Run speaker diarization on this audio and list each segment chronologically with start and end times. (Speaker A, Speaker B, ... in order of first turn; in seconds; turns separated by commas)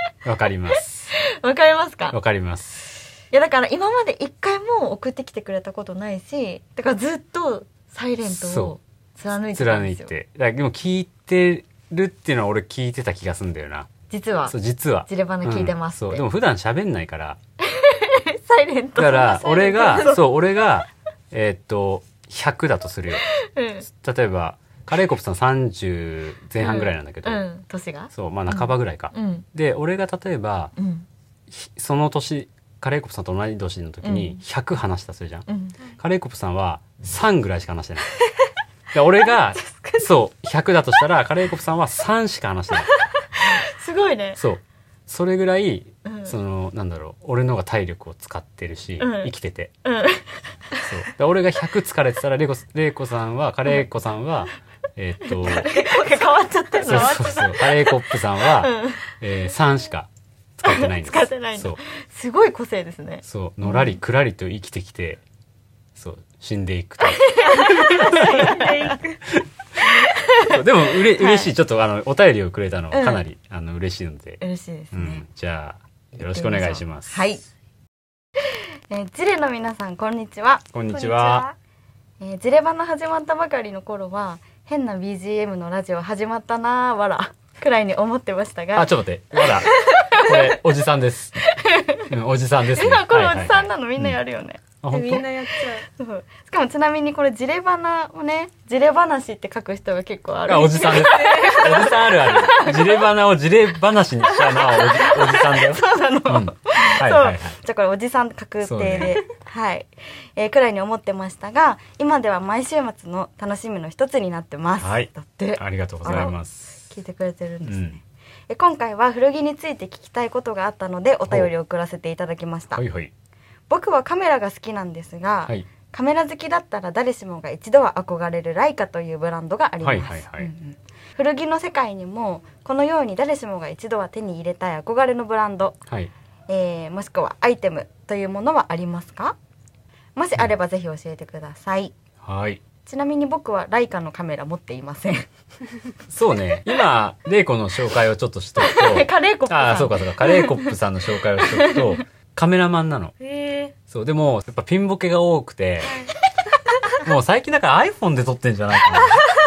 Speaker A: 0.2-0.9, Speaker B: 1.1-2.2, Speaker A: 2.1-3.0, Speaker B: 3.3-10.1, Speaker A: 8.3-8.8, Speaker A: 9.5-13.9, Speaker B: 14.1-16.2, Speaker A: 14.5-17.4, Speaker B: 17.6-20.1, Speaker A: 19.0-23.2, Speaker C: 19.5-20.2, Speaker B: 23.4-23.9, Speaker A: 23.9-27.4, Speaker B: 26.6-29.4, Speaker A: 28.1-30.7, Speaker B: 30.8-31.1, Speaker A: 31.5-35.5, Speaker B: 34.0-34.4, Speaker B: 35.5-35.8, Speaker A: 36.0-38.1, Speaker A: 38.9-42.9, Speaker B: 43.4-44.4, Speaker A: 44.4-49.7, Speaker B: 46.0-46.4, Speaker B: 49.0-49.3, Speaker B: 49.8-50.5, Speaker A: 50.9-55.7, Speaker B: 55.4-59.1, Speaker C: 55.6-56.2, Speaker A: 56.8-61.8, Speaker B: 60.6-64.0, Speaker A: 63.2-65.2, Speaker A: 66.0-68.5, Speaker B: 67.0-68.9, Speaker C: 67.9-69.2, Speaker B: 70.0-71.5, Speaker A: 70.5-74.4, Speaker B: 72.9-73.2, Speaker B: 74.4-75.2, Speaker A: 74.9-77.2, Speaker B: 76.2-77.4, Speaker B: 78.9-81.4, Speaker A: 80.7-81.5, Speaker C: 80.9-81.5, Speaker B: 82.2-88.9, Speaker A: 88.8-91.3, Speaker B: 89.9-90.3, Speaker B: 91.5-92.1, Speaker A: 92.1-94.2, Speaker B: 92.7-94.6, Speaker A: 94.8-95.3, Speaker C: 94.9-95.9, Speaker B: 96.0-103.0, Speaker A: 100.5-107.6, Speaker C: 100.9-102.0, Speaker B: 104.2-122.8, Speaker A: 108.6-109.2, Speaker A: 114.8-116.9, Speaker A: 117.6-118.0, Speaker A: 122.8-123.1, Speaker B: 123.7-135.8, Speaker A: 129.8-130.5, Speaker B: 136.5-139.4, Speaker B: 140.2-141.9, Speaker A: 142.2-142.6, Speaker B: 142.8-145.3, Speaker A: 146.1-153.1, Speaker B: 148.6-150.8, Speaker B: 151.4-152.0, Speaker C: 153.2-153.7, Speaker A: 153.9-155.9, Speaker C: 155.9-156.1, Speaker A: 157.0-159.2